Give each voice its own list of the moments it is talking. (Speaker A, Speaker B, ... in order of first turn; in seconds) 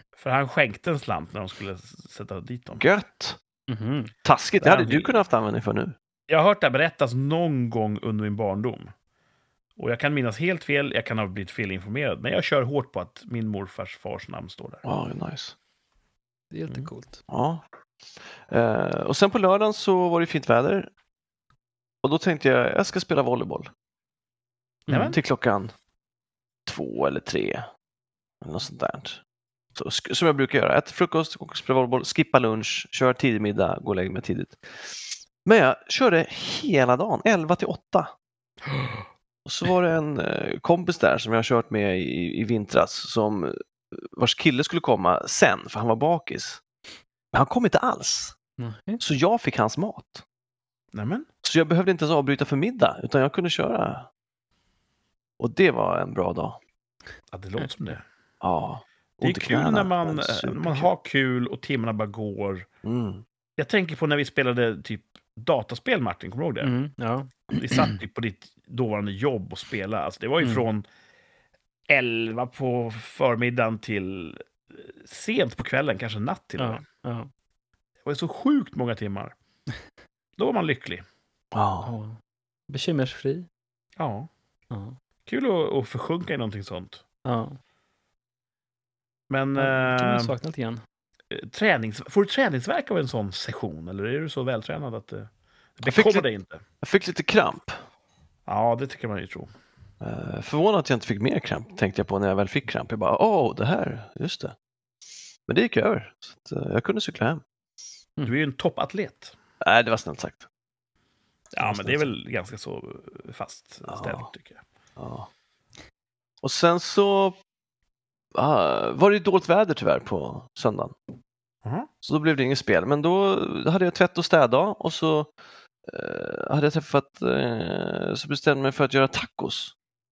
Speaker A: 0.2-2.8, 4.6-5.1, 6.3-8.9, 9.8-14.8, 24.9-25.2, 50.9-51.3, 57.3-58.0, 59.2-62.7, 63.6-66.7, 67.5-70.8, 71.9-76.8, 78.0-79.3, 80.4-81.0, 84.0-84.3, 85.3-87.0, 89.3-90.3, 91.3-96.6, 98.5-99.5, 108.2-109.3, 111.5-114.6, 121.6-121.9
Speaker B: 2.8-3.4, 4.2-6.0, 14.8-15.6, 17.3-17.6, 18.5-20.9, 22.0-23.7, 25.0-25.7, 26.7-27.7, 28.4-29.2, 29.8-38.1, 39.5-46.6, 47.3-48.4, 49.0-50.2, 51.4-54.1, 55.4-56.6, 58.4-60.9, 62.8-63.2, 81.5-81.9, 95.8-96.3, 96.8-97.8, 100.0-104.5, 105.5-107.4, 109.6-110.5, 111.6-112.1, 113.9-114.3, 115.0-115.3, 116.4-117.4, 118.3-121.0, 122.0-125.3, 125.9-129.7
Speaker C: 3.7-4.1, 16.5-17.2, 24.9-25.2, 48.6-49.0, 66.6-68.0, 76.6-77.3, 81.8-83.5, 84.7-85.0, 87.2-87.6, 89.6-90.8